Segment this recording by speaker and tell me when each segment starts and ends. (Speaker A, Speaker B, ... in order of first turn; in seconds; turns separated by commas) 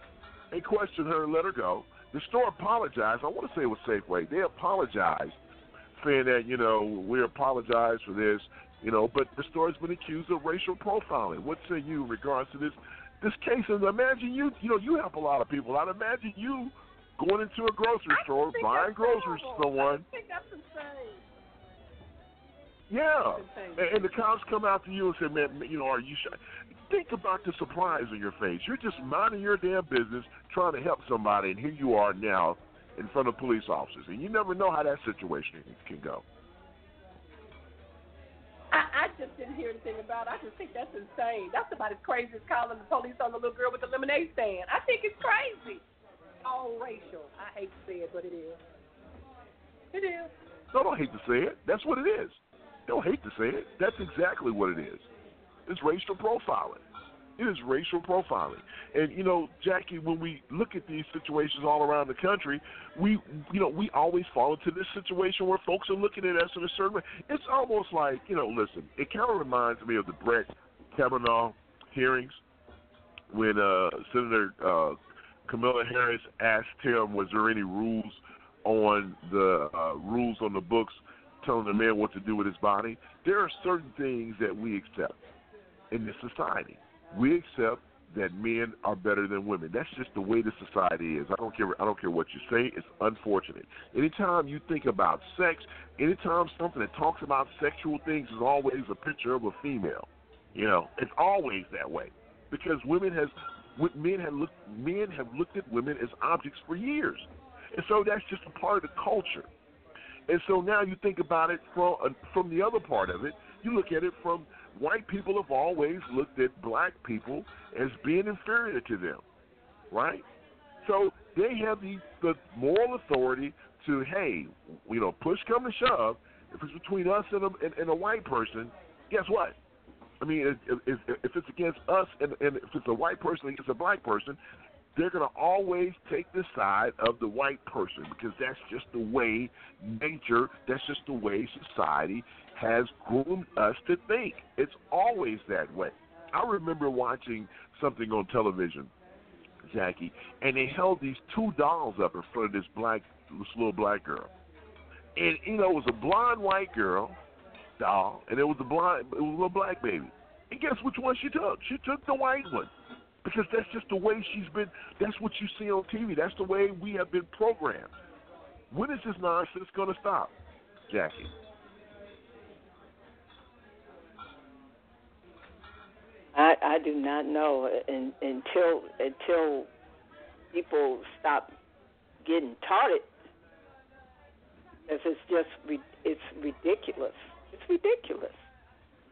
Speaker A: 0.5-5.3, Speaker A: 6.0-20.0, Speaker B: 18.1-21.2, Speaker A: 22.9-26.3, Speaker B: 23.3-24.0, Speaker A: 26.9-36.2, Speaker B: 38.7-45.8, Speaker B: 46.4-48.6, Speaker B: 49.9-50.3, Speaker A: 50.7-55.1, Speaker A: 55.7-56.8, Speaker A: 57.4-72.4, Speaker A: 73.3-85.2, Speaker A: 85.9-109.5, Speaker A: 110.3-119.2, Speaker A: 119.9-120.2, Speaker A: 120.8-129.6, Speaker A: 130.2-134.4, Speaker A: 134.9-148.9, Speaker A: 149.6-154.3, Speaker A: 155.2-157.2, Speaker A: 157.8-162.7, Speaker A: 163.2-167.9, Speaker A: 168.7-170.3, Speaker A: 170.9-171.3, Speaker C: 176.3-179.7, Speaker C: 180.5-181.5, Speaker C: 182.2-183.1, Speaker C: 184.9-188.4